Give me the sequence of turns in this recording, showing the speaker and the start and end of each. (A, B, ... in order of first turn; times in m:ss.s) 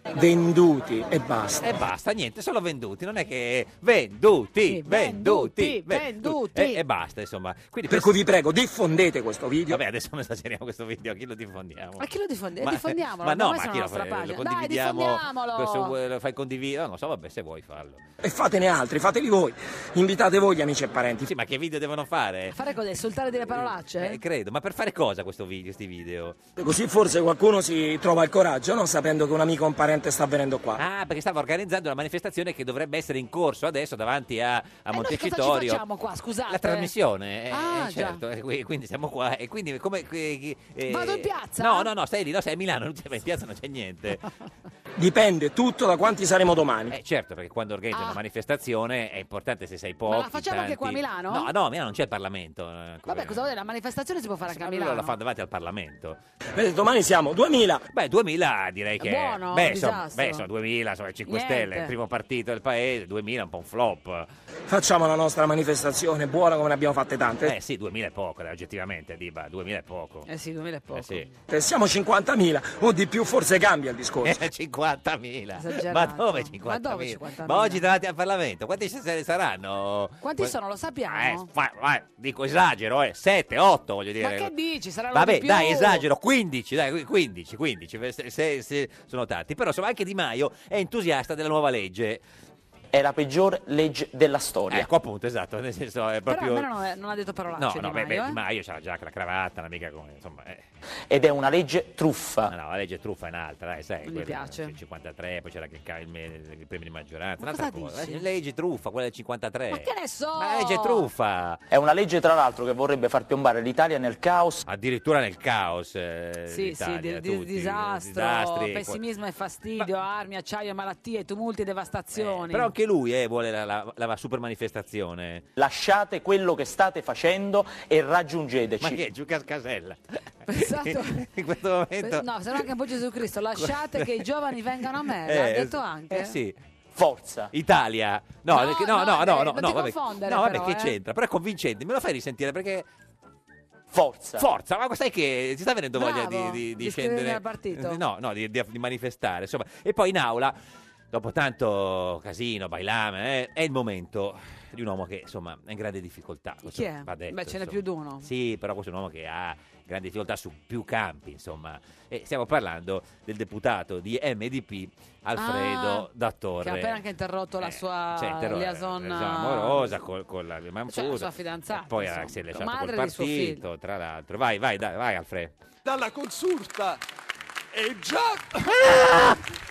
0:00.1-0:01.6 A
0:01.6-0:08.2 B
0:04.6-0:06.8 C
0:07.9-0:09.8 A
0:09.7-0:12.1 B
0:12.0-0:15.9 C
0:12.6-0:18.0 B
0:18.2-0:21.3 A
0:21.2-0:22.6 B
0:22.5-0:24.2 C
0:24.0-0:26.4 B
0:26.6-0:30.8 A
0:30.8-0:35.8 B
0:34.9-0:36.9 C
0:36.5-0:44.2 B
0:37.5-0:38.2 C
0:40.9-0:41.9 C
0:45.0-0:47.0 A
0:46.9-0:53.5 B
0:47.9-0:48.2 C
0:50.1-0:51.5 C
0:53.1-0:55.1 C
0:54.5-0:56.2 B
0:56.6-0:57.9 A
0:57.9-1:04.3 B
0:59.0-1:00.4 C
1:01.3-1:01.9 C
1:04.7-1:07.6 A
1:07.4-1:10.3 B
1:10.3-1:11.3 C
1:11.0-1:11.3 B
1:11.5-1:14.4 A
1:14.2-1:20.5 B
1:15.6-1:17.8 C
1:20.2-1:21.5 C
1:21.1-1:24.5 B
1:24.2-1:26.0 C
1:25.1-1:32.2 B
1:32.9-1:34.9 D
1:34.7-1:36.7 B
1:36.3-1:38.4 C
1:37.6-1:40.7 B
1:41.1-1:42.5 D
1:42.5-1:51.6 B
1:44.0-1:44.7 C
1:47.4-1:48.3 C
1:49.7-1:51.1 C
1:51.7-1:54.6 D
1:54.6-1:59.0 B
1:56.5-2:02.7 C
2:02.2-2:05.5 B
2:05.6-2:09.0 D
2:08.8-2:12.7 B
2:10.5-2:11.3 C
2:12.0-2:16.4 C
2:13.6-2:14.3 B
2:15.2-2:16.6 B
2:16.9-2:17.5 D
2:17.5-2:22.9 B
2:18.5-2:20.9 C
2:23.9-2:24.5 D
2:24.4-2:30.6 B
2:26.0-2:28.0 C
2:31.1-2:47.0 B
2:36.6-2:38.3 C
2:45.4-2:46.1 C
2:46.6-2:50.0 C
2:47.6-2:55.5 B
2:50.9-2:53.6 C
2:55.8-2:57.0 E
2:57.7-2:58.6 E
2:58.6-2:59.4 B